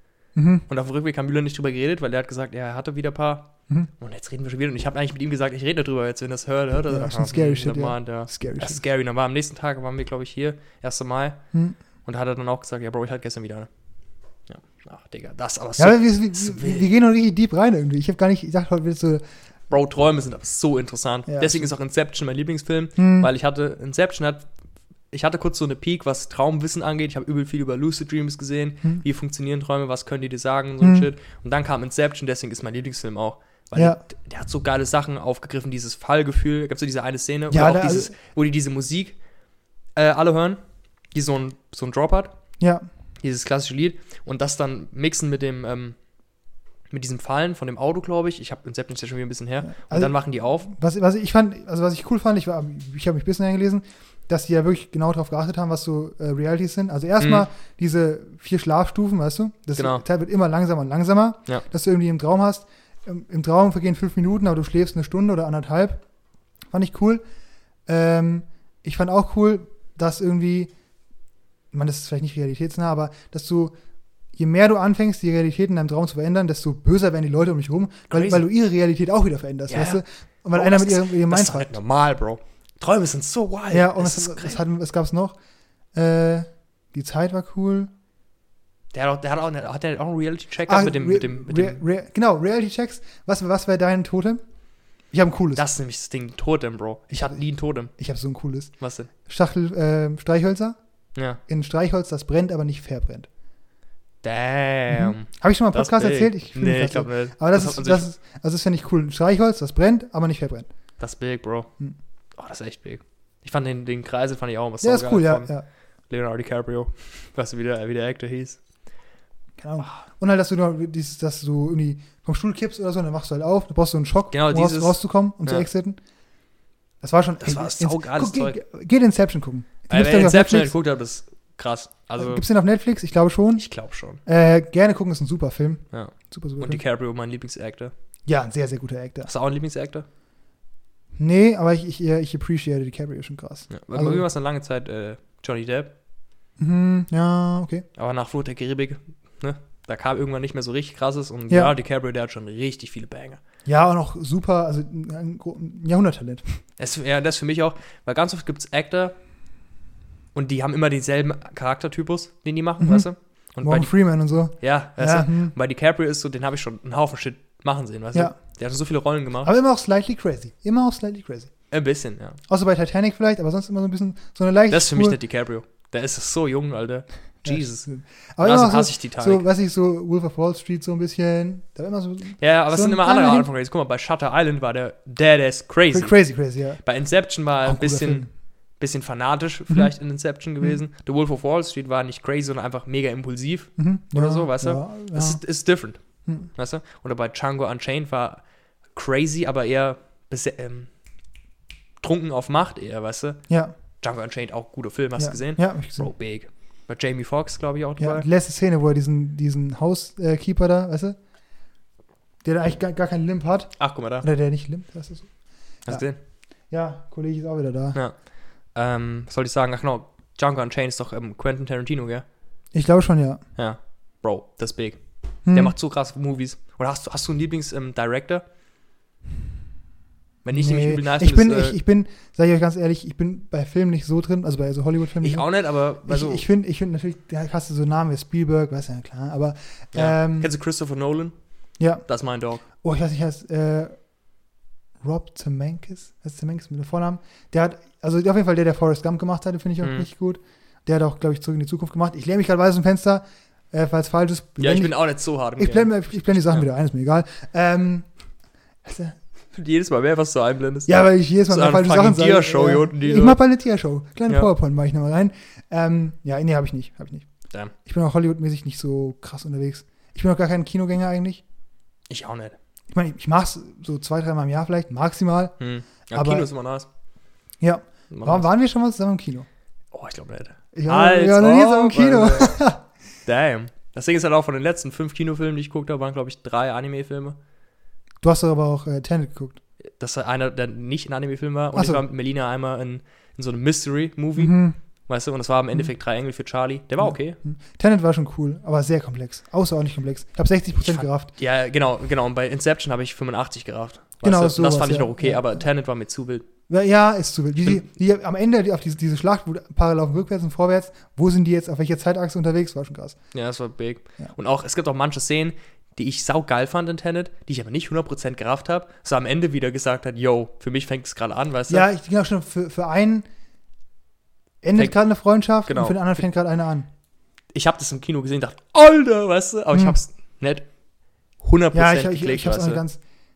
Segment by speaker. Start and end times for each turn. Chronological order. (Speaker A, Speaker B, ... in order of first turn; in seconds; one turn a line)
Speaker A: 0.3-0.7
Speaker B: 0.7-11.4
Speaker A: 6.9-8.8
Speaker B: 12.0-13.7
Speaker B: 14.5-16.9
Speaker A: 15.8-19.2
Speaker B: 19.7-24.5
Speaker A: 21.3-21.7
Speaker A: 23.0-23.3
Speaker B: 25.1-39.2
Speaker A: 30.8-31.1
Speaker A: 33.7-34.0
Speaker A: 37.5-38.1
Speaker B: 40.0-40.6
Speaker B: 41.1-42.3
Speaker A: 42.6-42.9
Speaker B: 43.2-46.0
Speaker B: 46.9-50.7
Speaker A: 49.6-66.0
Speaker B: 57.2-57.4
Speaker B: 59.8-60.0
Speaker A: 66.7-67.2
Speaker A: 67.9-70.7
Speaker A: 71.7-73.7
Speaker A: 74.3-81.7
Speaker B: 78.1-78.4
Speaker B: 79.7-80.0
Speaker B: 80.5-84.6
Speaker A: 83.7-85.4
Speaker A: 85.9-87.9
Speaker B: 88.9-91.8
Speaker A: 90.7-94.4
Speaker A: 95.1-95.6
Speaker B: 95.5-97.9
Speaker A: 98.0-98.7
Speaker B: 98.8-99.1
Speaker A: 99.2-100.8
Speaker A: 101.5-103.3
Speaker B: 104.2-108.0
Speaker A: 104.9-110.7
Speaker B: 111.0-111.7
Speaker B: 112.4-115.5
Speaker A: 114.8-115.6
Speaker B: 116.1-118.6
Speaker A: 119.6-126.0
Speaker B: 124.3-125.7
Speaker A: 127.0-130.7
Speaker B: 127.4-128.6
Speaker B: 129.9-132.4
Speaker A: 132.2-133.7
Speaker B: 133.6-134.2
Speaker A: 134.2-136.8
Speaker B: 135.9-137.9
Speaker A: 138.2-139.3
Speaker B: 139.2-140.1
Speaker A: 141.2-144.2
Speaker B: 143.7-145.9
Speaker A: 146.6-147.8
Speaker B: 147.9-153.4
Speaker A: 151.5-151.7
Speaker A: 153.6-156.6
Speaker B: 156.8-159.1
Speaker B: 160.3-163.9
Speaker A: 162.8-163.1
Speaker A: 163.6-165.5
Speaker B: 164.6-169.5
Speaker A: 169.4-171.5
Speaker B: 171.7-172.4
Speaker A: 172.5-175.2
Speaker B: 174.7-177.9
Speaker A: 177.4-183.5
Speaker B: 178.4-179.4
Speaker B: 182.4-186.1
Speaker A: 185.9-186.8
Speaker B: 186.8-188.2
Speaker A: 187.6-188.3
Speaker B: 188.8-196.0
Speaker A: 193.8-195.4
Speaker B: 196.5-198.4
Speaker B: 198.9-200.9
Speaker B: 202.0-203.4
Speaker B: 204.0-208.2
Speaker A: 205.2-206.1
Speaker A: 208.0-211.2
Speaker A: 212.4-215.3
Speaker B: 213.8-214.3
Speaker B: 215.9-216.2
Speaker A: 216.7-218.0
Speaker B: 218.7-222.2
Speaker A: 222.7-223.4
Speaker B: 223.6-228.4
Speaker A: 225.4-225.7
Speaker B: 230.4-231.8
Speaker A: 230.5-235.5
Speaker B: 235.2-236.4
Speaker A: 236.0-240.5
Speaker B: 239.9-241.3
Speaker A: 241.8-242.0
Speaker B: 242.0-242.6
Speaker A: 242.8-243.9
Speaker A: 245.0-255.0
Speaker B: 249.8-250.1
Speaker B: 254.6-256.6
Speaker A: 255.6-258.1
Speaker A: 258.8-259.1
Speaker B: 259.5-263.4
Speaker A: 260.9-267.3
Speaker A: 267.8-271.4
Speaker B: 272.1-272.6
Speaker A: 272.9-275.6
Speaker B: 275.6-276.9
Speaker A: 276.1-276.5
Speaker A: 277.6-279.5
Speaker B: 278.1-278.5
Speaker B: 279.9-282.6
Speaker A: 280.7-282.8
Speaker B: 283.2-287.4
Speaker A: 288.2-289.6
Speaker B: 290.0-297.4
Speaker A: 291.7-292.0
Speaker A: 294.4-294.8
Speaker A: 297.0-301.3
Speaker B: 300.8-306.4
Speaker A: 304.2-305.6
Speaker A: 306.7-313.2
Speaker B: 313.3-321.9
Speaker A: 321.7-323.2
Speaker A: 324.6-326.9
Speaker B: 325.6-326.0
Speaker B: 327.5-330.6
Speaker A: 329.7-330.0
Speaker B: 331.4-332.8
Speaker A: 331.7-333.0